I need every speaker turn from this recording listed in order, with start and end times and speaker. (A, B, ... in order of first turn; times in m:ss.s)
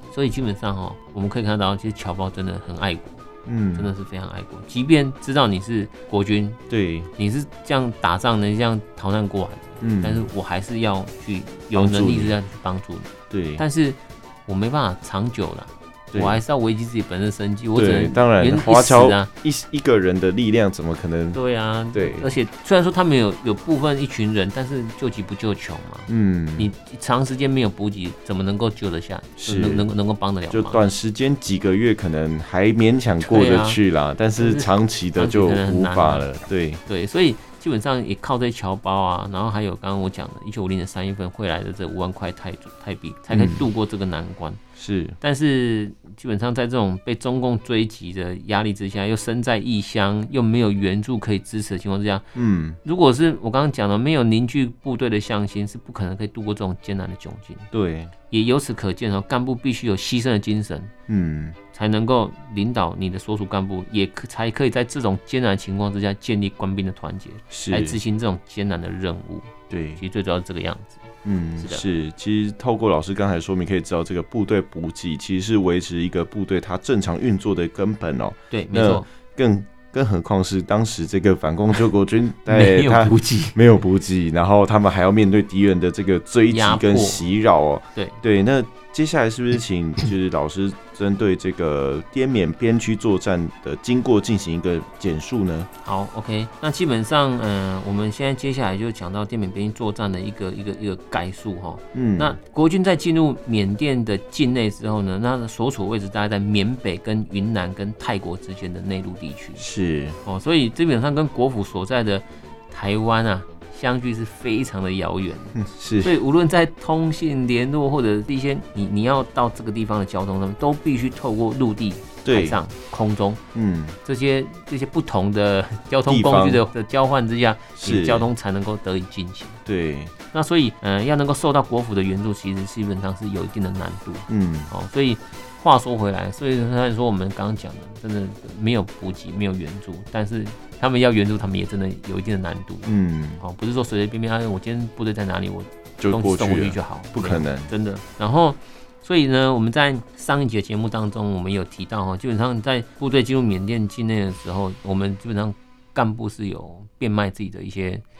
0:00.1-0:06.6 A
0:03.5-0:03.9 B
0:06.7-0:07.1 B
0:07.2-0:19.3 A
0:09.8-0:10.3 B
0:11.7-0:12.4 B
0:13.3-0:13.6 B
0:16.1-0:16.4 B
0:17.8-0:21.4 B
0:21.3-0:30.8 A
0:21.9-0:22.3 B
0:26.1-0:26.7 B
0:29.4-0:29.9 B
0:30.5-0:36.8 B
0:33.2-0:33.8 A
0:34.4-0:36.3 A
0:36.9-0:44.6 A
0:43.3-0:43.6 B
0:44.8-0:45.2 B
0:45.2-0:52.3 A
0:52.4-0:52.8 B
0:52.8-0:57.7 A
0:57.7-0:58.1 B
0:58.3-1:00.9 A
1:01.1-1:01.6 B
1:01.7-1:11.1 A
1:07.5-1:08.0 B
1:09.7-1:10.0 B
1:11.2-1:35.7 B
1:11.6-1:11.8 A
1:18.5-1:19.1 A
1:22.5-1:23.6 A
1:26.5-1:27.3 A
1:28.0-1:28.2 A
1:35.8-1:49.6 A
1:41.9-1:42.4 B
1:49.6-1:50.2 B
1:50.2-2:03.4 A
1:55.6-1:56.1 B
2:02.2-2:02.6 B
2:03.5-2:04.0 B
2:04.0-2:09.6 A
2:06.1-2:06.6 B
2:07.8-2:08.3 B
2:09.7-2:10.1 B
2:10.3-2:38.0 A
2:14.3-2:14.7 B
2:22.9-2:23.4 B
2:26.0-2:27.7 B